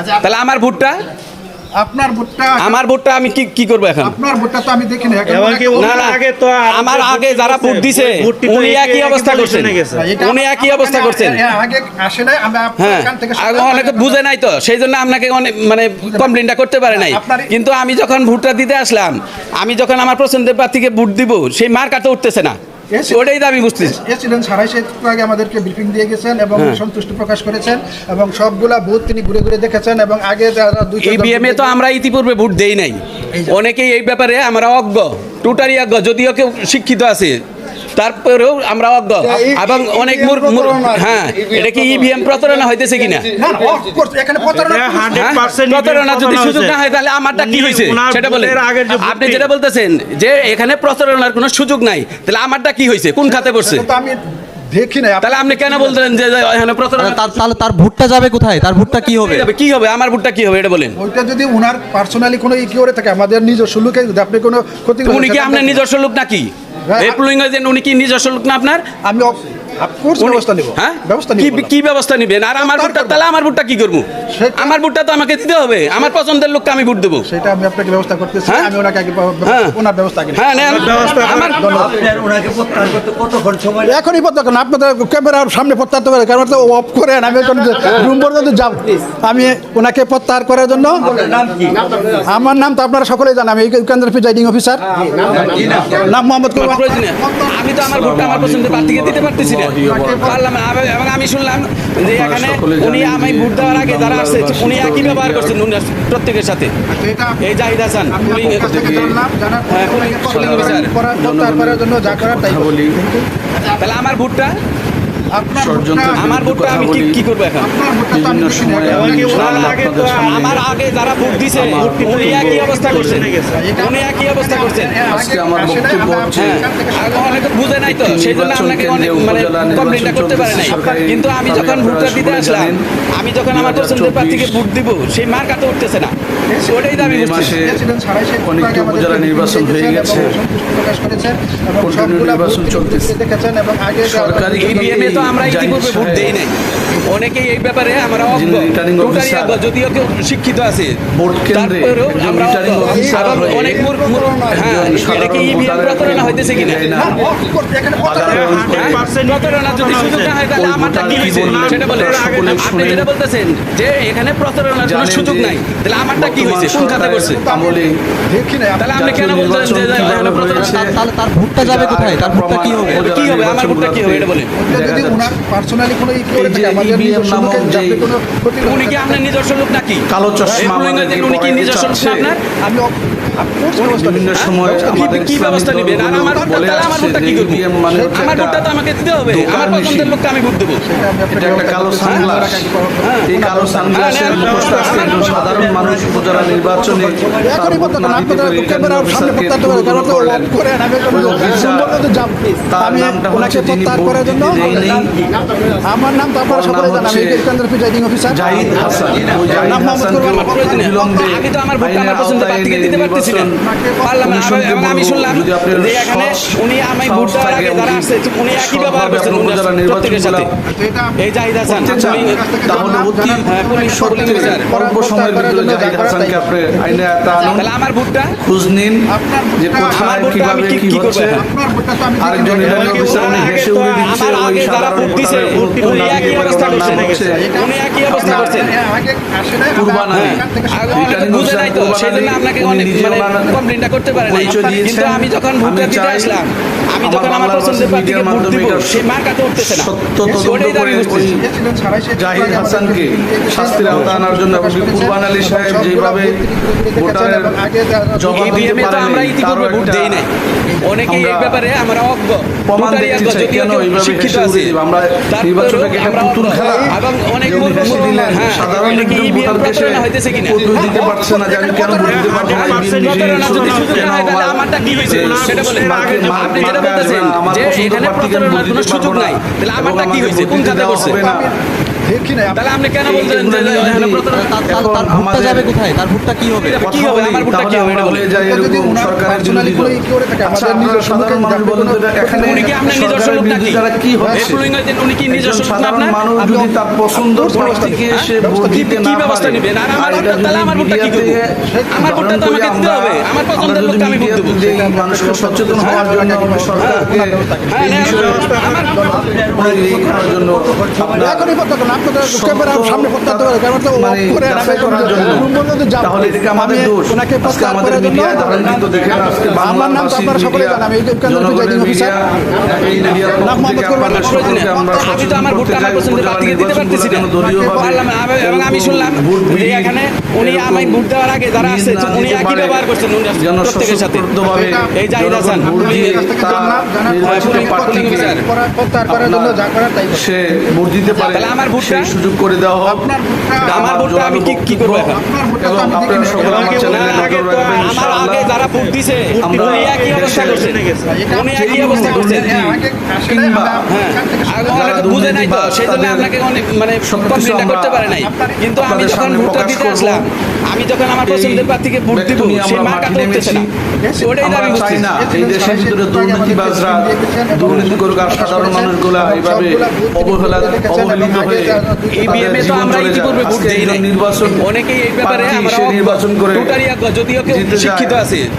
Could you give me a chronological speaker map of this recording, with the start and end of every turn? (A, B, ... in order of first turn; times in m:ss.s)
0:00.2-0:01.0 A
0:01.8-0:02.8 B
0:02.6-0:04.2 A
0:04.0-0:06.0 B
0:05.2-0:10.1 C
0:05.8-0:06.2 A
0:06.7-0:11.4 A
0:09.9-0:14.2 B
0:12.8-0:22.5 A
0:16.0-0:16.3 B
0:16.9-0:17.5 B
0:22.9-0:23.2 B
0:23.1-0:24.0 A
0:23.8-0:31.8 B
0:26.6-0:26.8 A
0:31.0-0:37.4 A
0:38.0-0:43.3 A
0:39.3-0:41.1 B
0:43.4-0:45.5 B
0:44.6-0:46.8 C
0:45.1-0:53.8 A
0:47.3-0:49.5 C
0:53.2-0:54.2 B
0:54.7-0:56.0 B
0:55.2-0:57.2 A
0:57.0-0:59.5 D
0:59.1-1:01.0 A
1:01.0-1:05.8 B
1:05.0-1:08.8 A
1:06.9-1:07.2 B
1:09.0-1:11.7 B
1:10.2-1:14.0 A
1:12.6-1:13.2 B
1:14.3-1:14.8 B
1:14.6-1:17.2 A
1:17.2-1:20.9 B
1:19.4-1:19.8 A
1:20.3-1:21.8 A
1:20.6-1:21.6 C
1:21.5-1:22.0 B
1:22.0-1:23.8 E
1:23.8-1:31.7 B
1:32.2-1:34.8 B
1:35.3-1:36.2 F
1:35.8-1:37.7 B
1:36.5-1:46.7 A
1:37.8-1:40.4 F
1:39.8-1:40.4 B
1:42.0-1:45.6 F
1:46.9-1:47.4 B
1:47.4-1:49.1 A
1:48.1-1:53.3 B
1:48.4-1:49.2 F
1:49.7-1:50.9 A
1:50.3-1:53.0 F
1:53.8-1:54.5 A
1:55.3-1:56.2 B
1:55.5-1:57.2 F
1:56.2-1:57.7 A
1:57.6-1:59.6 B
1:58.1-2:00.6 F
1:58.9-2:03.6 C
1:59.3-2:05.0 A
2:01.5-2:03.2 F
2:03.5-2:07.8 B
2:05.1-2:06.6 F
2:06.3-2:16.1 A
2:07.8-2:12.8 F
2:10.5-2:11.0 B
2:13.5-2:14.6 F
2:16.5-2:16.9 B
2:16.6-2:17.6 A
2:16.9-2:17.8 F
2:17.4-2:25.0 B
2:18.4-2:20.3 F
2:21.8-2:23.1 F
2:24.0-2:26.3 F
2:24.6-2:26.5 A
2:27.0-2:31.0 A
2:28.2-2:29.6 F
2:31.1-2:33.9 F
2:31.5-2:37.0 A
2:32.8-2:34.7 B
2:34.5-2:37.2 F
2:36.9-2:38.7 B
2:38.0-2:39.0 F
2:38.1-2:40.4 C
2:38.7-2:47.4 A
2:40.5-2:43.1 F
2:40.9-2:43.0 C
2:44.8-2:45.6 F
2:46.2-2:47.9 F
2:46.9-2:49.0 B
2:48.8-2:50.8 A
2:48.9-2:50.9 F
2:50.6-2:53.0 D
2:51.6-2:55.3 F
2:52.8-2:54.5 A
2:54.5-2:59.3 B
2:56.3-2:58.1 F
2:58.6-3:02.4 A
3:00.1-3:02.3 F
3:00.5-3:00.7 B
3:02.6-3:05.2 B
3:03.8-3:08.7 F
3:04.3-3:10.8 A
3:06.4-3:06.6 B
3:07.9-3:08.3 B
3:09.2-3:10.2 F
3:10.8-3:15.2 B
3:11.3-3:12.6 F
3:12.0-3:12.3 A
3:13.0-3:13.3 A
3:13.3-3:20.5 F
3:13.9-3:14.6 A
3:14.4-3:15.1 C
3:15.1-3:17.4 E
3:17.4-3:24.7 B
3:21.1-3:22.0 F
3:22.7-3:25.1 F
3:25.8-3:31.4 B
3:26.5-3:27.5 F
3:28.3-3:33.6 F
3:30.4-3:33.5 A
3:33.6-3:34.3 B
3:34.0-3:40.5 A
3:34.2-3:40.5 F
3:40.6-3:41.2 B
3:41.2-3:44.7 A
3:41.7-3:47.7 F
3:41.7-3:47.6 B
3:47.5-3:48.3 A
3:48.4-3:49.0 F
3:49.1-3:50.5 B
3:49.6-3:51.4 F
3:49.9-3:51.4 A
3:51.4-3:53.2 B
3:52.2-3:57.5 F
3:52.6-3:57.4 C
3:53.0-3:58.7 A
3:57.3-4:01.4 B
3:58.1-3:58.6 F
3:59.7-4:03.6 F
4:00.1-4:11.3 A
4:04.1-4:06.4 F
4:04.4-4:05.0 B
4:07.0-4:09.0 F
4:09.6-4:11.4 F
4:10.2-4:10.5 B
4:11.2-4:18.8 B
4:12.2-4:16.4 F
4:17.0-4:17.6 F
4:18.2-4:20.2 F
4:18.3-4:24.8 A
4:21.0-4:21.6 F
4:22.7-4:41.5 F
4:25.3-4:30.6 A
4:26.5-4:26.9 B
4:27.5-4:28.4 B
4:30.5-4:32.6 B
4:31.9-4:37.0 C
4:32.4-4:41.2 A
4:40.9-4:41.5 B
4:42.0-4:42.6 B
4:42.5-4:44.6 A
4:43.0-4:45.7 F
4:44.3-4:46.8 D
4:46.6-4:48.3 A
4:46.8-4:54.6 F
4:48.3-4:53.2 B
4:52.4-4:56.2 A
4:54.2-4:54.5 B
4:55.3-5:08.4 F
4:56.4-4:58.8 B
4:58.1-5:01.4 A
5:00.0-5:00.3 B
5:01.6-5:02.2 B
5:01.9-5:04.7 A
5:04.6-5:08.4 B
5:05.8-5:06.0 A
5:06.8-5:07.1 A
5:07.7-5:09.2 A
5:08.0-5:09.1 C
5:08.9-5:09.2 B
5:09.0-5:11.2 E
5:09.3-5:11.5 F
5:11.2-5:18.6 B
5:12.2-5:15.5 F
5:16.0-5:31.0 F
5:19.5-5:22.2 B
5:23.3-5:25.3 B
5:24.0-5:34.3 A
5:27.4-5:28.0 B
5:31.6-5:38.4 F
5:34.5-5:34.9 B
5:34.9-5:38.4 A
5:35.6-5:41.4 B
5:39.1-5:43.0 F
5:41.3-5:42.1 A
5:42.8-5:43.8 B
5:43.6-5:48.6 F
5:43.7-5:45.2 A
5:45.1-5:47.0 B
5:46.4-5:51.2 C
5:46.8-5:52.6 A
5:49.4-5:50.7 F
5:51.1-5:55.3 B
5:51.5-5:53.8 F
5:53.9-6:03.6 A
5:54.7-5:56.3 F
5:57.0-5:58.2 F
5:58.2-5:58.7 B
5:58.8-6:00.2 F
6:01.2-6:03.7 F
6:04.0-6:13.1 B
6:04.2-6:05.0 A
6:04.4-6:14.6 F
6:12.1-6:18.4 A
6:15.2-6:16.8 F
6:17.4-6:18.2 F